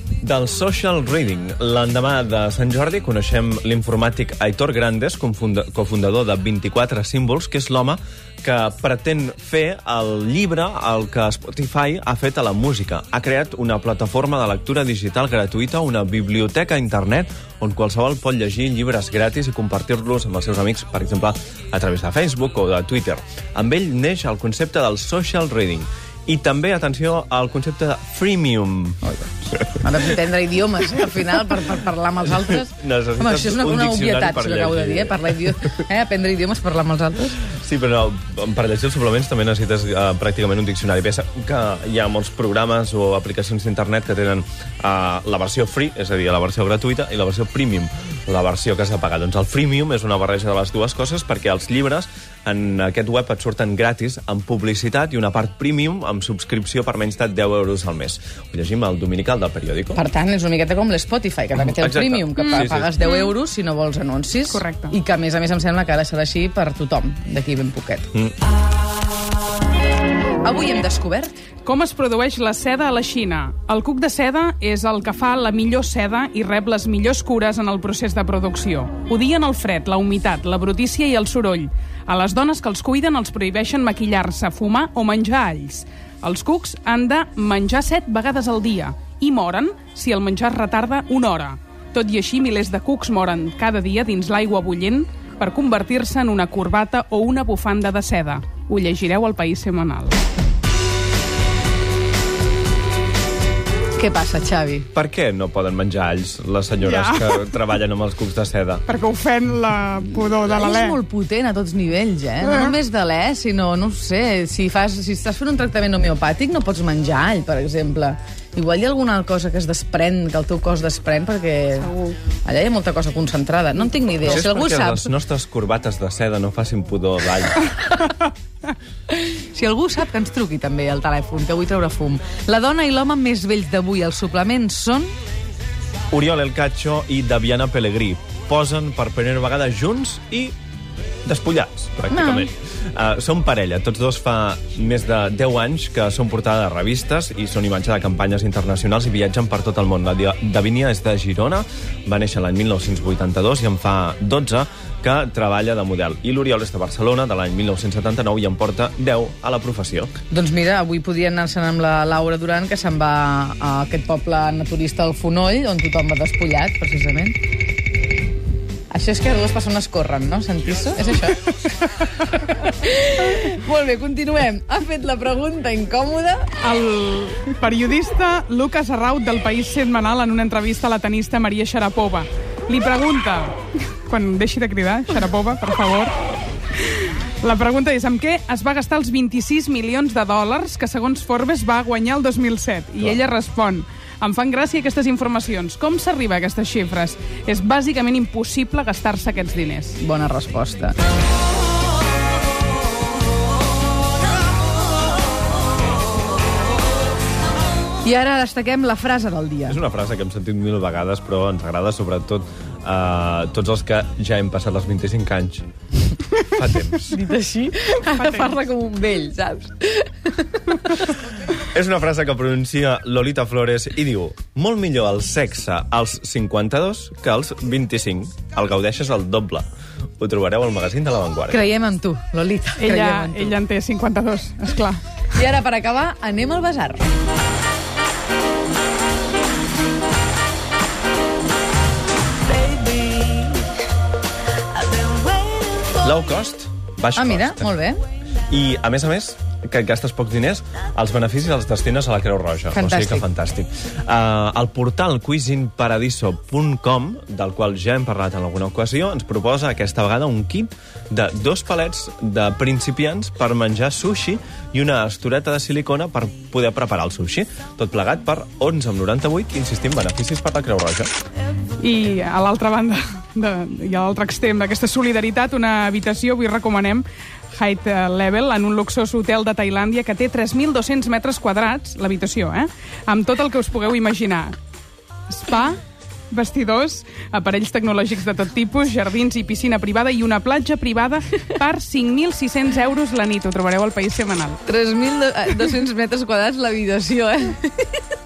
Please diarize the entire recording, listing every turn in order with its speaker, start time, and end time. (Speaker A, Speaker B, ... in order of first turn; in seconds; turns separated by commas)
Speaker A: 0.2-29.0, Speaker B: 29.0-37.4, Speaker A: 32.7-35.7, Speaker A: 37.5-60.0, Speaker B: 59.9-68.1, Speaker A: 61.6-62.9, Speaker C: 62.6-63.3, Speaker C: 64.5-64.9, Speaker B: 70.4-71.3, Speaker C: 71.6-100.2, Speaker B: 104.0-104.9, Speaker A: 104.9-108.8, Speaker C: 106.8-107.5, Speaker C: 108.9-111.0, Speaker B: 110.4-121.9, Speaker C: 121.8-122.2, Speaker B: 122.4-125.1, Speaker A: 124.2-127.6, Speaker B: 129.1-135.1, Speaker A: 136.1-140.5, Speaker A: 141.2-160.1, Speaker B: 142.1-142.5, Speaker B: 160.3-167.3, Speaker B: 168.9-171.4, Speaker B: 172.2-176.5, Speaker C: 176.6-186.1, Speaker C: 186.7-200.0, Speaker B: 200.0-201.0, Speaker B: 208.0-209.8, Speaker A: 209.7-215.7, Speaker A: 216.4-217.1, Speaker B: 217.1-221.1, Speaker C: 218.0-218.6, Speaker A: 221.6-229.7, Speaker A: 230.2-231.6, Speaker B: 231.5-233.5, Speaker C: 232.8-235.0, Speaker B: 235.3-237.1, Speaker B: 242.8-243.5, Speaker A: 245.9-247.7, Speaker B: 247.1-248.0, Speaker A: 248.5-271.1, Speaker B: 252.7-253.2, Speaker C: 271.8-284.6, Speaker C: 285.3-294.6, Speaker B: 294.6-298.0